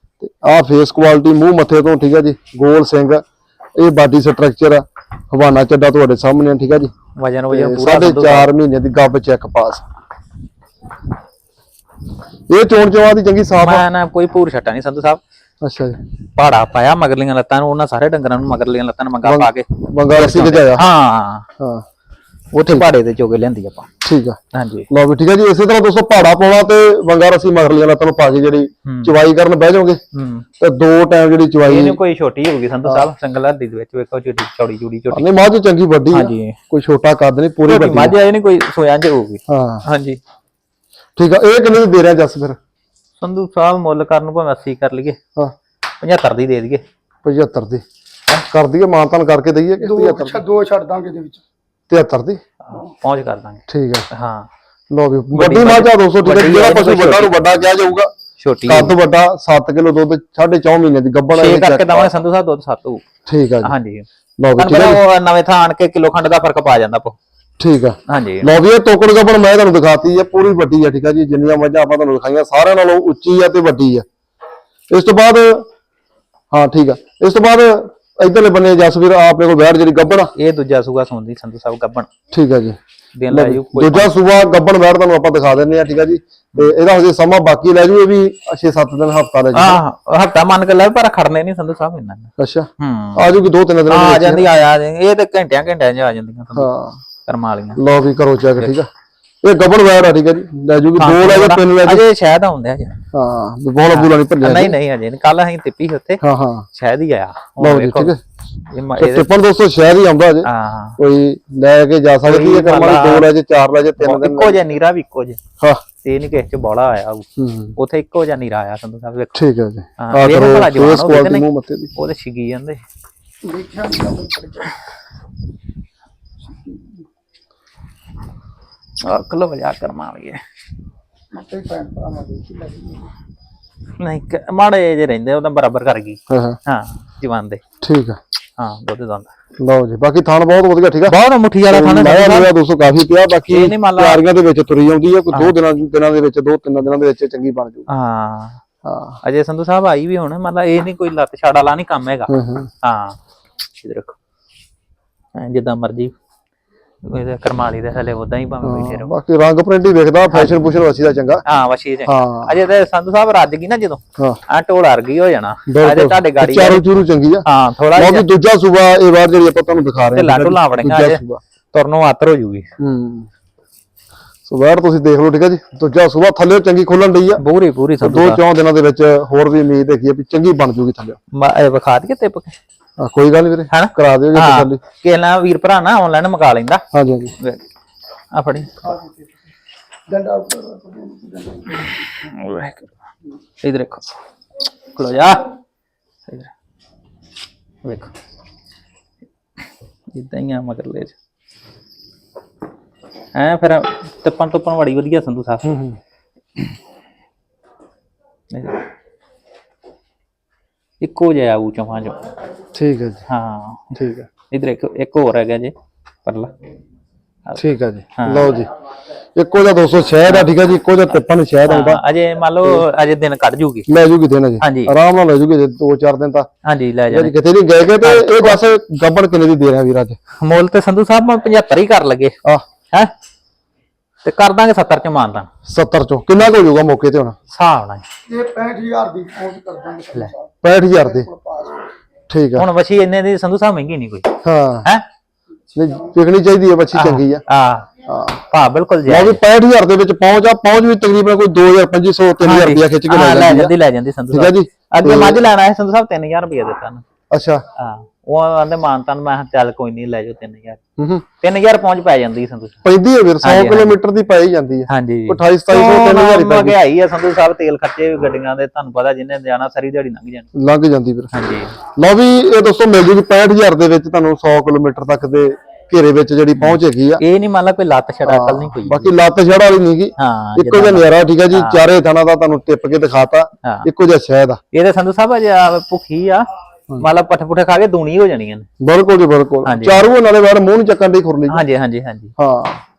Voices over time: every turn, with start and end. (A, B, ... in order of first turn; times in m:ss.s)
0:00.2-0:03.2 A
0:03.8-0:06.9 A
0:07.2-0:08.5 B
0:07.5-0:09.8 A
0:12.5-0:13.8 A
0:13.6-0:15.2 B
0:15.6-0:16.0 A
0:16.4-0:21.5 B
0:19.2-0:20.8 A
0:21.6-0:21.8 A
0:22.5-0:23.9 B
0:24.0-0:24.4 A
0:24.5-0:24.9 B
0:24.9-0:30.0 A
0:28.8-0:29.1 B
0:30.1-0:30.4 B
0:30.6-0:32.0 A
0:31.6-0:35.3 B
0:35.1-0:38.2 A
0:36.1-0:36.6 B
0:37.6-0:40.2 B
0:39.5-0:39.8 A
0:41.2-0:42.6 A
0:43.2-0:45.2 B
0:46.0-0:46.8 B
0:47.2-0:47.8 A
0:48.5-0:50.4 A
0:49.8-0:51.4 C
0:51.9-0:52.4 A
0:52.6-0:54.5 B
0:53.7-0:54.1 A
0:54.9-0:58.1 A
0:55.3-0:57.3 B
0:58.4-0:58.9 B
0:58.6-1:02.1 A
1:01.3-1:03.0 B
1:03.2-1:03.7 A
1:03.6-1:04.0 B
1:04.4-1:05.0 A
1:04.6-1:07.2 B
1:07.6-1:14.0 A
1:08.1-1:08.5 B
1:14.9-1:15.7 A
1:16.5-1:20.3 A
1:20.4-1:22.1 B
1:22.3-1:22.8 A
1:23.2-1:24.1 B
1:23.3-1:29.8 A
1:29.5-1:33.3 B
1:32.4-1:34.5 A
1:33.9-1:36.7 B
1:36.5-1:37.0 A
1:37.2-1:37.8 B
1:37.8-1:38.9 A
1:39.4-1:42.0 A
1:41.0-1:43.0 B
1:43.1-1:44.8 A
1:43.9-1:46.2 B
1:46.2-1:46.7 A
1:46.7-1:48.2 B
1:47.6-1:48.2 A
1:48.7-1:49.2 B
1:49.0-1:54.6 A
1:50.4-1:51.0 B
1:52.2-1:53.3 B
1:54.0-1:55.4 B
1:56.0-1:59.4 B
1:57.4-1:57.7 A
1:59.3-2:01.9 A
2:00.0-2:02.8 B
2:03.4-2:04.8 C
2:06.5-2:07.0 C
2:09.0-2:10.4 B
2:11.3-2:13.1 C
2:14.0-2:17.6 B
2:16.3-2:16.6 A
2:17.8-2:18.2 A
2:18.6-2:19.3 B
2:19.6-2:21.2 A
2:21.1-2:22.5 B
2:21.7-2:27.9 A
2:23.5-2:24.2 B
2:27.9-2:28.6 B
2:28.8-2:29.2 A
2:29.2-2:33.2 B
2:32.3-2:32.7 A
2:33.8-2:34.1 B
2:35.3-2:36.1 B
2:37.0-2:39.1 B
2:38.6-2:41.4 A
2:41.4-2:46.8 B
2:42.0-2:42.5 A
2:45.7-2:51.4 A
2:47.4-2:48.2 B
2:50.1-2:51.2 B
2:51.7-2:52.7 B
2:52.8-2:53.3 A
2:54.5-2:57.4 A
2:57.4-2:58.4 B
2:58.0-3:01.2 A
3:01.3-3:02.6 B
3:03.0-3:04.8 A
3:03.7-3:06.8 B
3:06.9-3:07.3 A
3:08.3-3:09.0 B
3:08.8-3:09.2 C
3:10.1-3:12.1 C
3:12.2-3:12.9 B
3:13.6-3:14.0 B
3:14.9-3:15.5 B
3:17.8-3:18.1 B
3:20.1-3:21.1 B
3:23.3-3:25.8 B
3:25.6-3:26.0 A
3:28.5-3:28.8 B
3:31.0-3:32.2 B
3:32.7-3:33.2 A
3:33.3-3:34.0 B
3:34.0-3:34.3 A
3:34.5-3:35.7 B
3:36.2-3:36.5 B
3:37.6-3:38.7 A
3:38.2-3:38.5 B
3:39.3-3:42.0 A
3:41.7-3:43.9 B
3:43.9-3:46.5 A
3:44.6-3:44.9 B
3:46.6-3:47.3 B
3:47.1-3:50.2 A
3:48.0-3:48.6 B
3:50.4-3:52.4 B
3:54.2-3:55.5 B
3:55.6-3:57.4 A
3:57.5-3:58.0 B
3:58.3-4:01.9 C
4:00.6-4:01.3 A
4:02.3-4:02.6 A
4:02.6-4:04.3 B
4:04.4-4:04.8 A
4:05.7-4:07.4 A
4:06.9-4:07.9 B
4:08.0-4:08.4 A
4:08.5-4:09.4 B
4:09.0-4:13.7 A
4:12.4-4:17.0 B
4:14.3-4:15.4 A
4:17.3-4:17.6 A
4:17.8-4:20.8 B
4:21.0-4:21.2 A
4:21.4-4:22.8 B
4:22.8-4:26.8 A
4:23.4-4:24.0 B
4:24.9-4:30.5 B
4:30.5-4:31.3 A
4:31.3-4:31.7 B
4:31.8-4:37.2 A
4:36.6-4:39.1 B
4:38.2-4:44.6 A
4:40.2-4:41.8 B
4:44.7-4:46.5 B
4:47.0-4:48.7 B
4:48.8-4:51.6 A
4:49.6-4:50.0 B
4:51.5-4:52.3 B
4:52.4-4:52.8 A